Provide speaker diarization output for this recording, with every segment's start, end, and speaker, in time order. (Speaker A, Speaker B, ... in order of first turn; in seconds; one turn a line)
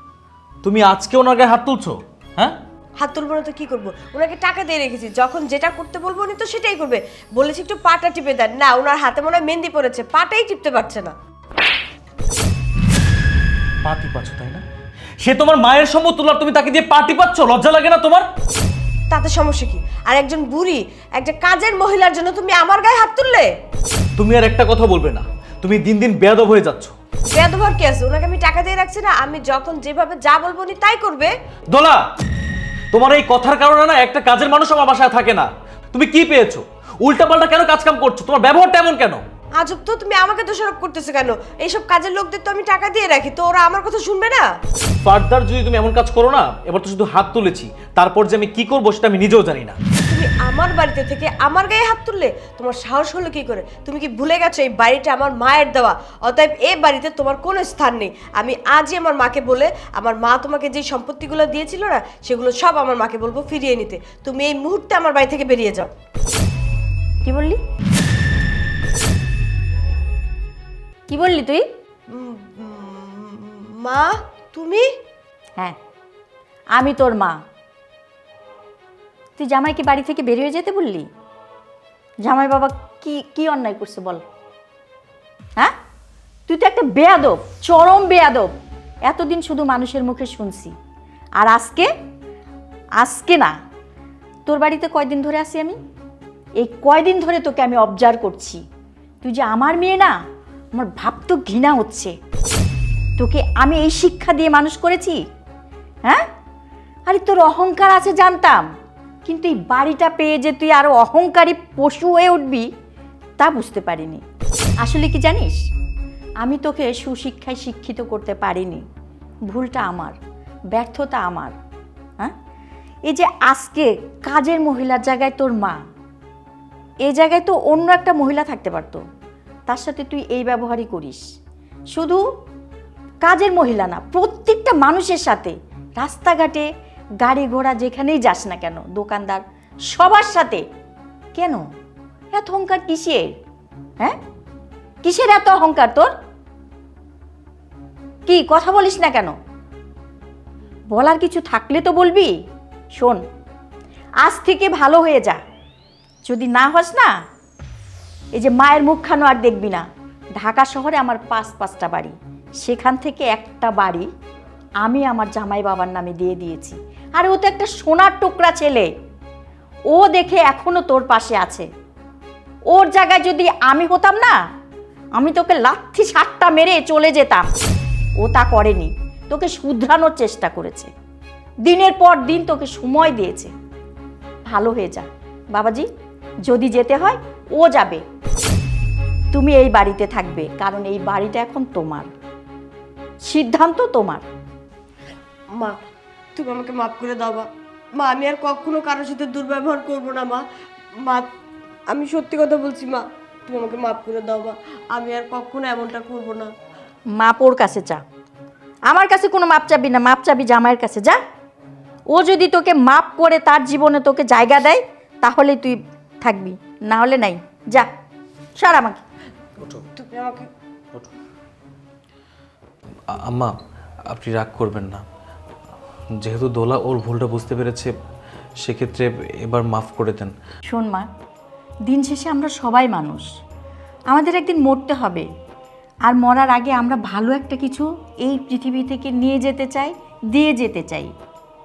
Speaker A: 0.6-2.6
Speaker B: 3.0-11.1
Speaker A: 13.8-14.6
Speaker A: 15.2-18.3
Speaker B: 19.1-23.5
Speaker A: 24.2-26.9
Speaker B: 27.3-31.3
Speaker A: 31.7-32.0
Speaker A: 32.9-39.2
Speaker B: 39.6-44.5
Speaker A: 45.0-49.8
Speaker B: 50.1-65.9
Speaker C: 67.2-67.6
Speaker C: 71.1-71.7
Speaker B: 72.1-74.8
Speaker C: 76.8-77.4
Speaker C: 79.4-81.1
Speaker C: 82.3-84.2
Speaker C: 86.5-88.5
Speaker C: 89.1-90.7
Speaker C: 91.4-91.9
Speaker C: 93.0-93.5
Speaker C: 94.5-95.8
Speaker C: 96.6-98.6
Speaker C: 99.2-100.2
Speaker C: 100.8-102.1
Speaker C: 103.2-105.2
Speaker C: 107.1-108.7
Speaker C: 109.2-112.7
Speaker C: 113.4-114.2
Speaker C: 114.8-115.6
Speaker C: 116.4-118.8
Speaker C: 119.5-120.2
Speaker C: 120.7-121.5
Speaker C: 123.1-125.8
Speaker C: 127.1-129.0
Speaker C: 129.7-131.2
Speaker C: 131.9-132.2
Speaker C: 133.2-136.7
Speaker C: 137.2-140.7
Speaker C: 141.3-141.6
Speaker C: 142.3-143.4
Speaker C: 145.0-146.1
Speaker C: 148.3-149.3
Speaker C: 150.9-152.4
Speaker C: 152.9-153.2
Speaker C: 154.2-155.4
Speaker C: 156.3-157.1
Speaker C: 158.4-159.9
Speaker C: 160.4-164.1
Speaker C: 164.8-168.9
Speaker C: 169.9-171.7
Speaker C: 172.7-174.4
Speaker C: 175.2-177.5
Speaker C: 178.2-180.9
Speaker C: 181.7-183.5
Speaker C: 184.5-185.9
Speaker C: 186.5-188.0
Speaker C: 189.3-192.1
Speaker C: 193.2-194.2
Speaker B: 196.3-200.4
Speaker B: 201.9-206.5
Speaker C: 207.2-208.0
Speaker C: 208.9-211.2
Speaker C: 212.1-217.9
Speaker C: 218.6-219.0
Speaker B: 219.7-220.5
Speaker A: 223.1-223.6
Speaker A: 224.1-225.0
Speaker A: 226.2-227.9
Speaker A: 228.6-230.3
Speaker C: 230.7-231.1
Speaker C: 231.9-233.3
Speaker C: 234.1-235.3
Speaker C: 236.1-241.1